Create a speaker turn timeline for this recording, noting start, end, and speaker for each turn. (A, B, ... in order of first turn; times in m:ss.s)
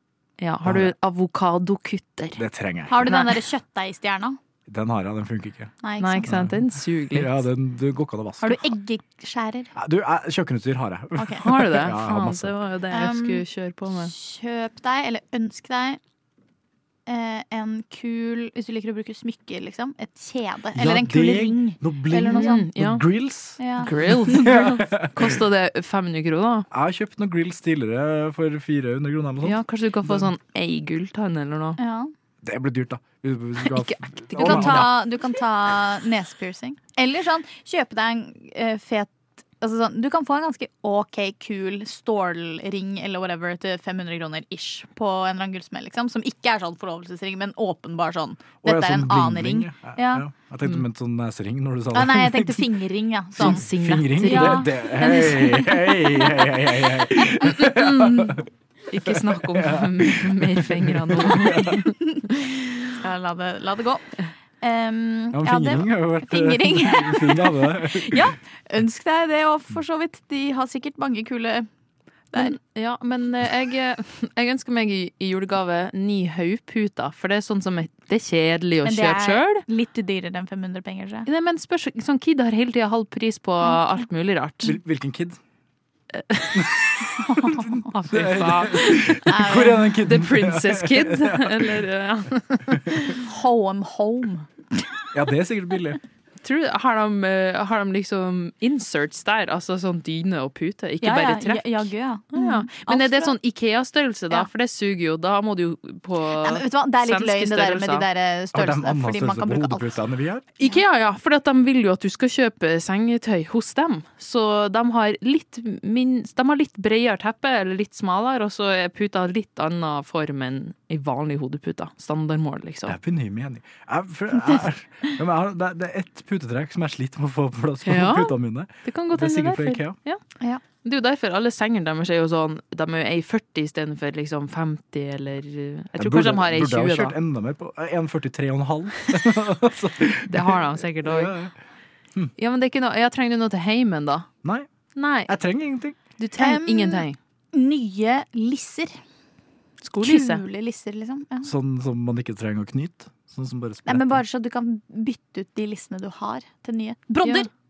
0:00.4-0:02.4 A
0:00.6-0:00.9 B
0:02.4-0:03.2 B
0:02.9-0:04.4 C
0:03.0-0:03.4 A
0:04.7-0:05.7 B
0:05.8-0:06.4 C
0:06.0-0:07.4 A
0:06.3-0:08.7 B
0:08.4-0:09.7 C
0:09.8-0:12.6 B
0:11.2-0:11.4 C
0:11.4-0:14.1 A
0:12.9-0:13.4 C
0:13.9-0:16.0 C
0:17.1-0:22.7 C
0:20.7-0:25.4 B
0:22.3-0:23.0 A
0:23.6-0:24.8 C
0:23.8-0:26.7 A
0:26.7-0:30.3 B
0:29.4-0:31.8 A
0:31.8-0:32.1 C
0:32.4-0:34.9 B
0:33.6-0:34.9 A
0:34.4-0:50.2 C
0:48.6-0:52.6 B
0:51.9-0:53.6 C
0:53.4-0:58.5 B
0:53.4-0:54.7 A
0:54.2-0:56.5 C
0:57.5-1:02.0 A
0:59.0-1:01.8 B
1:02.1-1:11.7 C
1:05.3-1:08.4 B
1:12.3-1:12.6 C
1:12.3-1:19.6 A
1:18.8-1:21.3 C
1:21.2-1:24.8 A
1:24.6-1:25.4 B
1:26.1-1:26.7 A
1:26.5-1:26.8 B
1:27.2-1:28.0 C
1:27.4-1:31.8 B
1:27.9-1:33.2 A
1:29.2-1:29.9 C
1:33.1-1:34.5 C
1:35.1-1:36.0 B
1:36.4-1:48.0 A
1:41.0-1:43.4 C
1:46.3-1:49.9 C
1:48.5-1:50.4 B
1:50.6-2:03.0 A
2:02.9-2:10.0 B
2:07.8-2:10.2 A
2:10.8-2:17.2 A
2:16.0-2:21.5 B
2:20.3-2:21.3 A
2:22.4-2:24.3 A
2:24.9-2:25.3 A
2:25.2-2:26.0 B
2:26.2-2:27.2 A
2:26.4-2:29.0 C
2:29.8-2:30.4 A
2:30.0-2:31.5 C
2:31.4-2:34.2 B
2:33.8-2:37.5 C
2:37.2-2:37.5 A